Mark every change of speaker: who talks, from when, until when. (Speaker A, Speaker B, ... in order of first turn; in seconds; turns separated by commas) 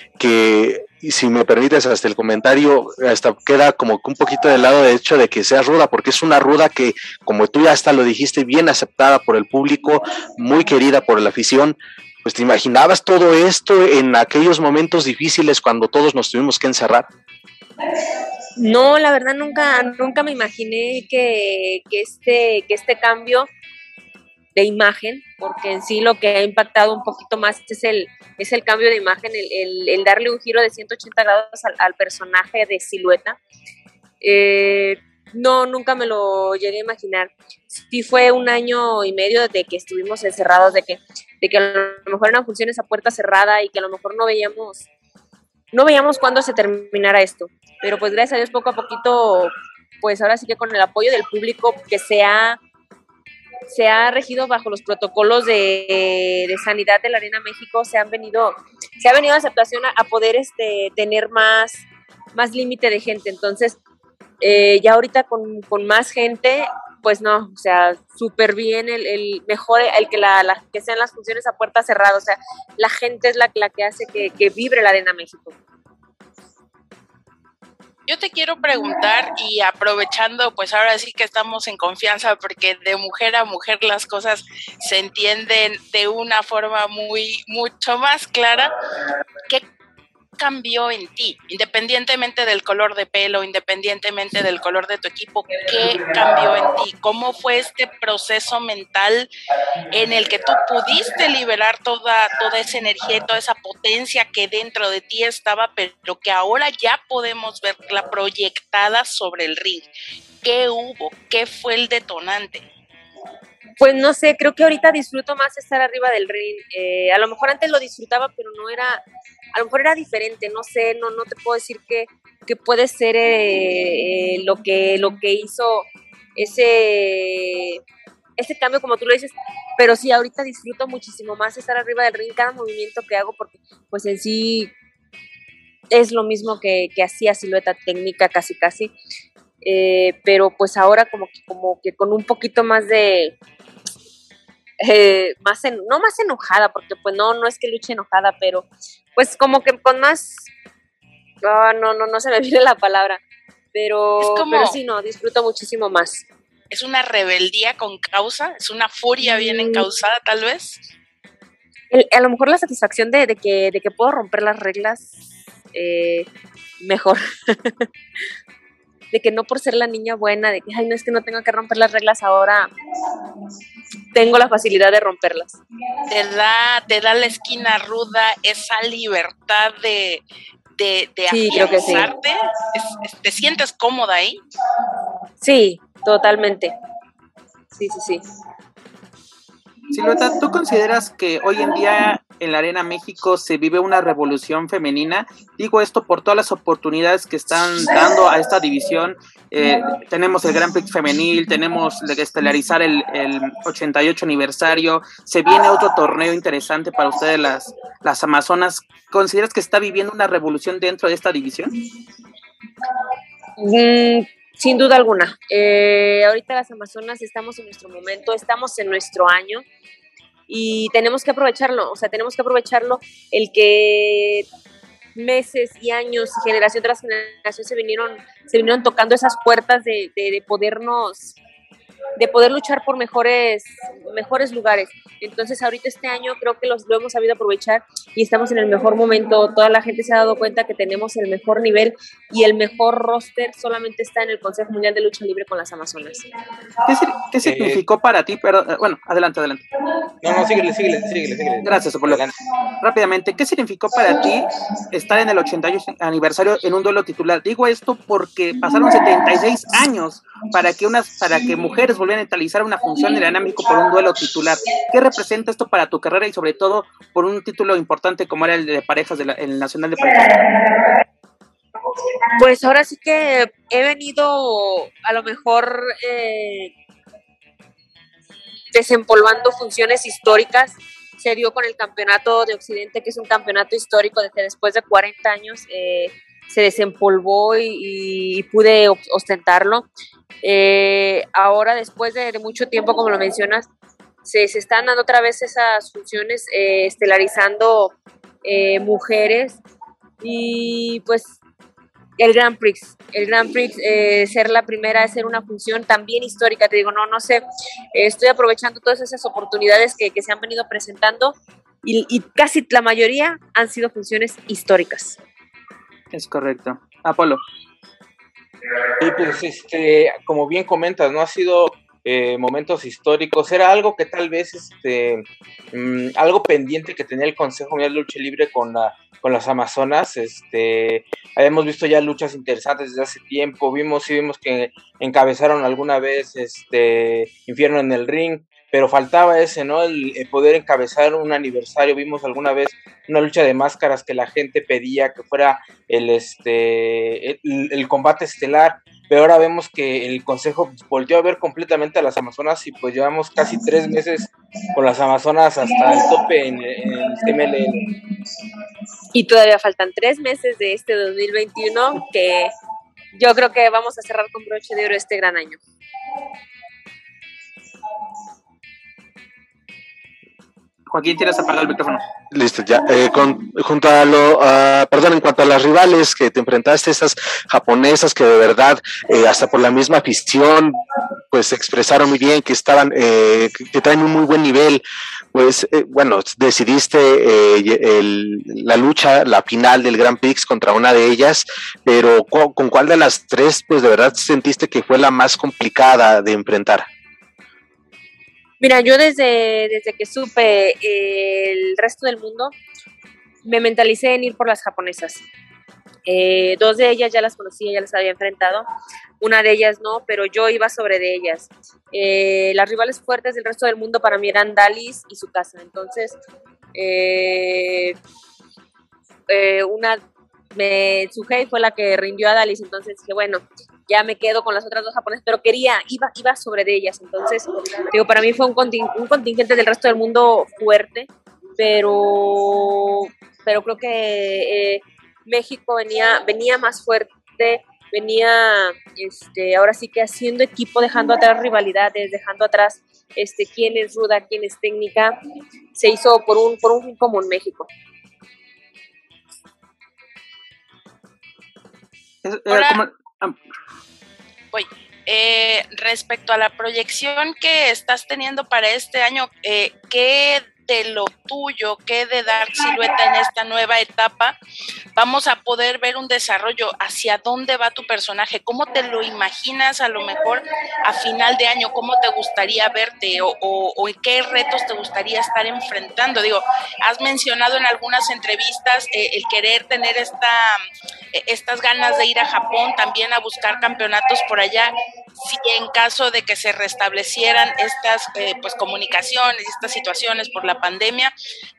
Speaker A: 0.2-17.1, Speaker B: 18.6-23.5, Speaker B: 24.6-33.4, Speaker B: 34.2-44.9, Speaker B: 45.7-52.6, Speaker B: 53.7-63.8, Speaker B: 64.4-75.6, Speaker C: 78.1-88.7, Speaker C: 90.4-99.3, Speaker C: 99.9-109.9, Speaker C: 110.4-112.7, Speaker B: 113.8-119.0, Speaker B: 119.5-127.8, Speaker B: 128.4-134.7, Speaker B: 135.9-138.9, Speaker B: 139.6-143.4, Speaker B: 144.8-150.5, Speaker B: 151.4-153.2, Speaker B: 153.7-156.2, Speaker C: 154.2-154.8, Speaker C: 156.7-160.8, Speaker B: 159.4-159.8, Speaker B: 161.9-165.2, Speaker B: 165.7-166.3, Speaker B: 166.8-167.8, Speaker B: 169.1-172.7, Speaker B: 174.1-175.6, Speaker C: 176.1-180.2, Speaker C: 180.8-184.4, Speaker B: 181.3-182.1, Speaker B: 185.4-186.7, Speaker B: 187.7-188.2, Speaker D: 189.9-211.8, Speaker B: 213.6-219.7, Speaker B: 220.5-224.5, Speaker B: 225.2-231.4, Speaker B: 232.2-246.3, Speaker D: 246.9-249.6, Speaker E: 247.4-247.8, Speaker E: 250.2-252.3, Speaker D: 251.6-252.2, Speaker D: 252.8-270.4, Speaker B: 272.4-276.7, Speaker B: 278.7-289.9, Speaker B: 290.4-293.7, Speaker B: 294.2-299.6, Speaker B: 300.2-301.4, Speaker B: 302.2-315.2, Speaker D: 316.1-317.4, Speaker E: 319.0-357.9, Speaker B: 359.1-362.5, Speaker B: 363.1-365.6, Speaker D: 370.9-372.0, Speaker A: 372.3-380.8, Speaker A: 381.3-396.9, Speaker B: 398.6-402.6, Speaker B: 403.4-405.2, Speaker B: 406.1-408.7, Speaker B: 409.2-416.2, Speaker B: 416.8-418.0, Speaker B: 419.3-420.0, Speaker B: 420.5-445.1, Speaker B: 445.8-447.7, Speaker D: 452.2-453.4, Speaker C: 452.5-452.8, Speaker C: 454.5-464.4, Speaker C: 464.9-480.6, Speaker C: 481.1-491.1